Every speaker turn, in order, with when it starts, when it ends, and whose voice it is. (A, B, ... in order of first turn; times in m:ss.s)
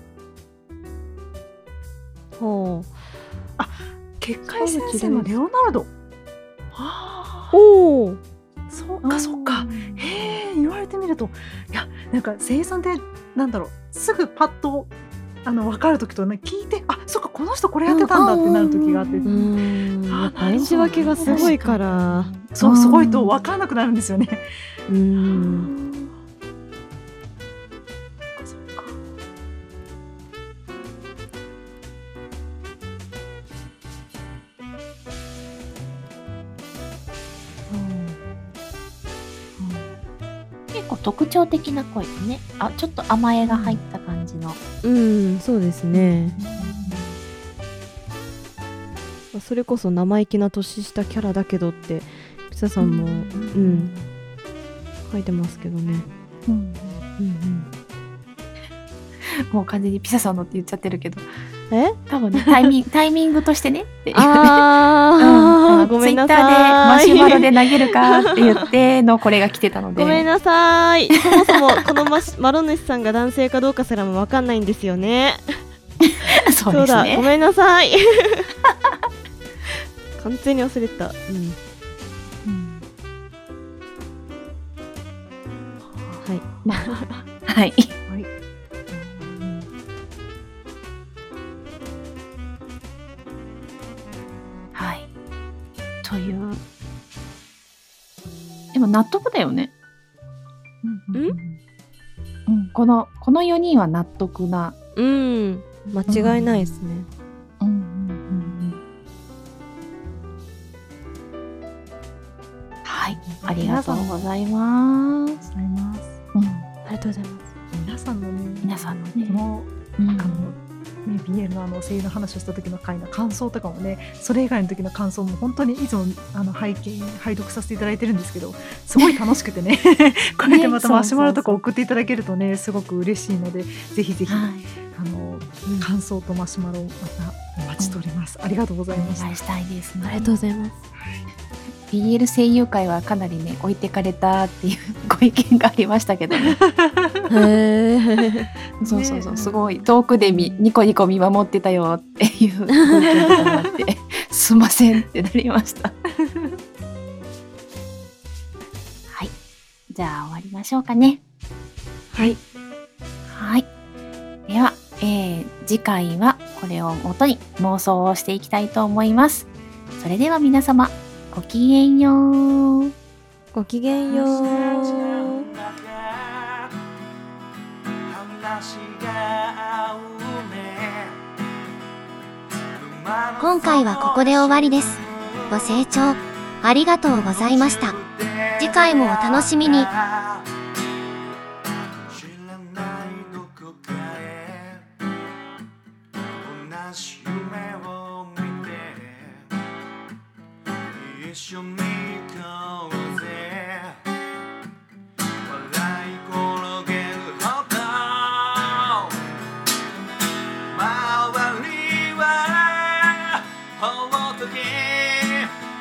0:02.4-0:03.0 A
0:03.6-0:05.9 B
0:04.5-0:05.3 A
0:06.7-0:07.6 B
0:07.5-0:08.2 A
0:08.7-0:14.9 B
0:09.0-0:10.4 C
0:15.4-0:19.5 B
0:17.9-0:18.6 A
0:18.1-0:19.4 C
0:19.2-0:22.3 A
0:20.1-0:21.9 B
0:20.6-0:23.3 C
0:22.5-0:24.4 B
0:24.9-0:25.7 A
0:25.2-0:26.2 B
0:28.4-0:29.0 B
0:37.7-0:38.2 A
0:40.7-0:44.6 C
0:44.8-0:46.4 A
0:45.9-0:47.1 C
0:46.3-0:47.1 B
0:49.3-0:53.9 A
0:52.8-0:54.0 C
0:55.1-0:56.1 A
0:56.5-0:57.0 C
0:57.2-0:57.7 A
0:59.3-1:01.3 C
1:01.7-1:02.0 A
1:02.1-1:10.3 C
1:04.1-1:07.8 A
1:10.0-1:15.5 A
1:16.0-1:17.3 C
1:16.7-1:18.5 A
1:20.2-1:21.6 A
1:22.4-1:22.8 B
1:25.8-1:26.5 B
1:26.6-1:27.9 C
1:28.9-1:29.7 B
1:34.7-1:35.1 C
1:36.0-1:36.6 C
1:38.7-1:39.7 C
1:40.8-1:41.6 C
1:42.5-1:44.8 C
1:45.0-1:47.1 A
1:46.1-1:46.4 C
1:46.1-1:46.4 B
1:47.6-1:48.8 C
1:52.8-1:55.4 C
1:53.1-1:54.3 B
1:55.4-1:56.2 B
1:56.3-1:56.7 C
1:56.8-1:57.4 A
1:57.7-2:19.4 B
1:58.6-1:59.4 C
2:00.0-2:00.5 C
2:10.4-2:11.6 C
2:14.3-2:14.7 C
2:18.9-2:20.3 C
2:20.0-2:20.8 A
2:21.0-2:21.2 B
2:21.9-2:26.6 C
2:26.4-2:27.3 B
2:27.3-2:28.5 A
2:28.8-2:29.9 B
2:28.8-2:36.0 C
2:33.2-2:33.5 B
2:36.2-2:36.5 B
2:39.1-2:39.3 C
2:39.9-2:41.2 C
2:42.1-2:42.4 A
2:43.3-2:43.7 C
2:44.5-2:52.9 C
2:53.5-2:55.4 A
2:54.1-2:56.7 D
2:58.1-3:01.2 D
3:02.7-3:05.8 D
3:03.4-3:08.0 E
3:07.1-3:10.5 D
3:08.6-3:09.9 E
3:12.1-3:14.8 D
3:16.4-3:19.4 D
3:20.9-3:24.0 D
3:25.4-3:29.2 D
3:30.7-3:35.5 D